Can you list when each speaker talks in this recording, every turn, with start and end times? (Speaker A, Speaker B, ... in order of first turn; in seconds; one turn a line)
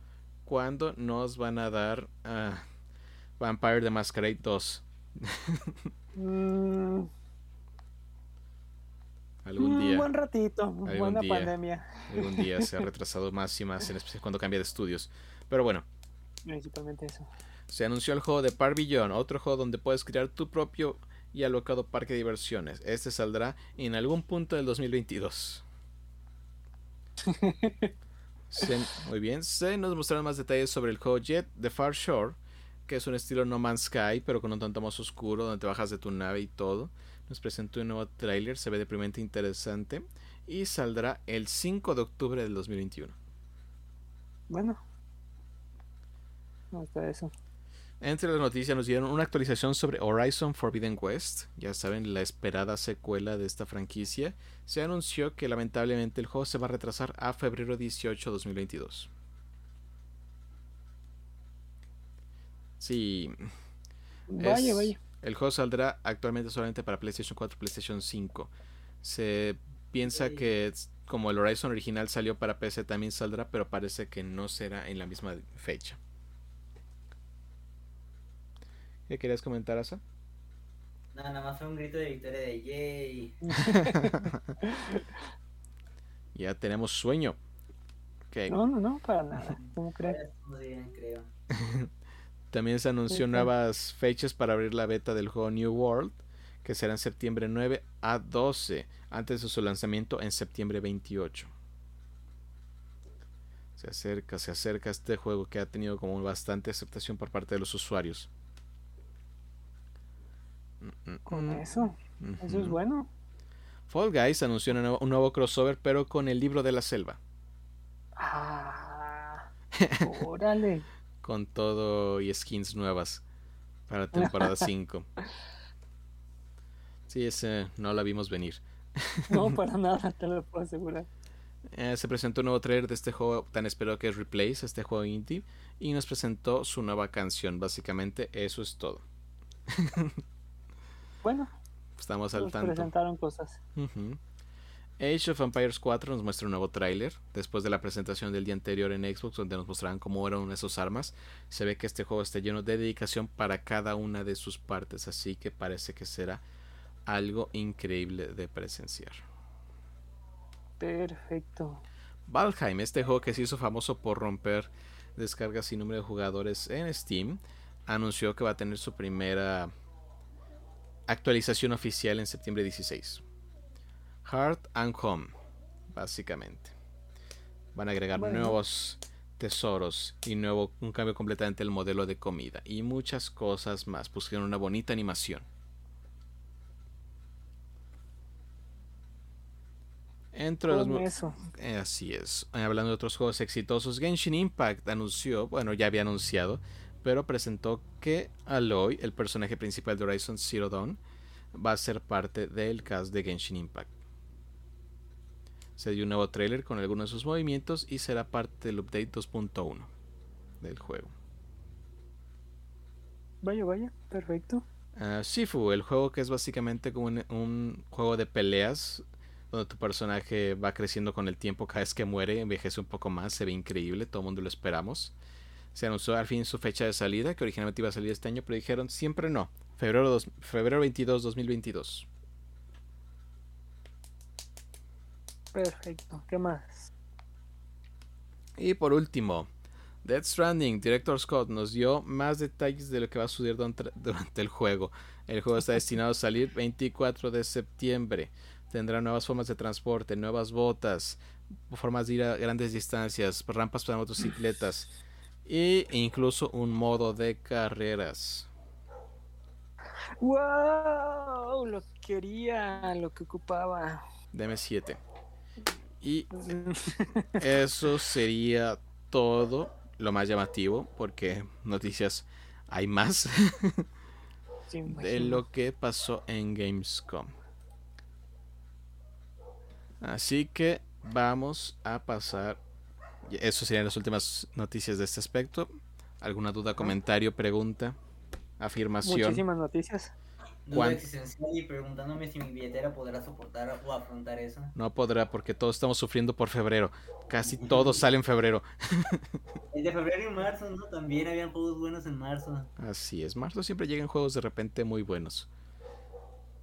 Speaker A: 0.4-2.6
Speaker A: 3.4-5.9
Speaker B: 6.1-7.1
Speaker A: 9.4-10.1
Speaker B: 9.6-12.8
Speaker A: 10.8-11.5
Speaker A: 12.1-15.8
Speaker B: 16.4-17.3
Speaker A: 17.7-25.6
Speaker B: 27.2-27.9
Speaker A: 28.5-43.1
Speaker B: 44.5-44.8
Speaker B: 46.7-47.3
Speaker A: 48.0-59.1
Speaker A: 62.8-63.5
Speaker B: 64.3-65.0
Speaker A: 64.4-68.5
Speaker A: 69.0-76.0
Speaker C: 70.1-70.4
Speaker A: 79.1-80.0
Speaker C: 81.1-83.5
Speaker B: 83.5-85.2
Speaker A: 83.6-84.5
Speaker A: 86.3-87.4
Speaker A: 88.3-88.6
Speaker B: 88.5-90.2
Speaker C: 90.0-91.3
Speaker A: 91.5-91.9
Speaker A: 92.5-101.5
Speaker B: 93.1-93.5
Speaker A: 103.8-108.3
Speaker A: 110.8-111.6
Speaker B: 111.3-113.1
Speaker A: 112.2-112.8
Speaker A: 113.9-117.2
Speaker B: 118.2-119.5
Speaker A: 119.7-120.1
Speaker B: 120.0-120.8
Speaker A: 121.2-123.2
Speaker A: 123.9-125.1
Speaker B: 124.1-124.7
Speaker A: 127.1-129.6
Speaker B: 129.3-131.1
Speaker A: 131.7-139.0
Speaker A: 139.7-140.2
Speaker B: 141.2-141.5
Speaker A: 142.0-142.9
Speaker B: 142.3-143.6
Speaker A: 143.7-144.2
Speaker A: 145.0-156.4
Speaker A: 157.1-159.2
Speaker B: 160.8-161.8
Speaker A: 162.3-169.7
Speaker A: 171.1-173.2
Speaker A: 174.2-175.3
Speaker A: 175.9-176.7
Speaker A: 177.7-185.4
Speaker B: 178.1-178.6
Speaker A: 190.3-201.0
Speaker B: 190.7-191.4
Speaker A: 201.5-203.9
Speaker A: 205.8-209.9
Speaker A: 210.6-211.1
Speaker B: 213.4-214.7
Speaker A: 214.9-225.1
Speaker A: 225.7-232.1
Speaker B: 235.5-236.9
Speaker A: 238.6-239.5
Speaker A: 240.0-254.9
Speaker A: 255.4-258.5
Speaker B: 260.2-264.0
Speaker A: 264.3-265.0
Speaker A: 266.0-266.3
Speaker B: 266.3-267.4
Speaker A: 267.3-273.9
Speaker B: 274.7-275.4
Speaker A: 274.9-277.3
Speaker A: 280.0-282.6
Speaker A: 283.3-285.7
Speaker A: 286.2-288.0
Speaker A: 288.6-289.4
Speaker B: 289.0-290.1
Speaker C: 290.6-294.7
Speaker A: 290.7-291.0
Speaker A: 294.7-299.2
Speaker C: 299.7-302.7
Speaker A: 302.8-305.5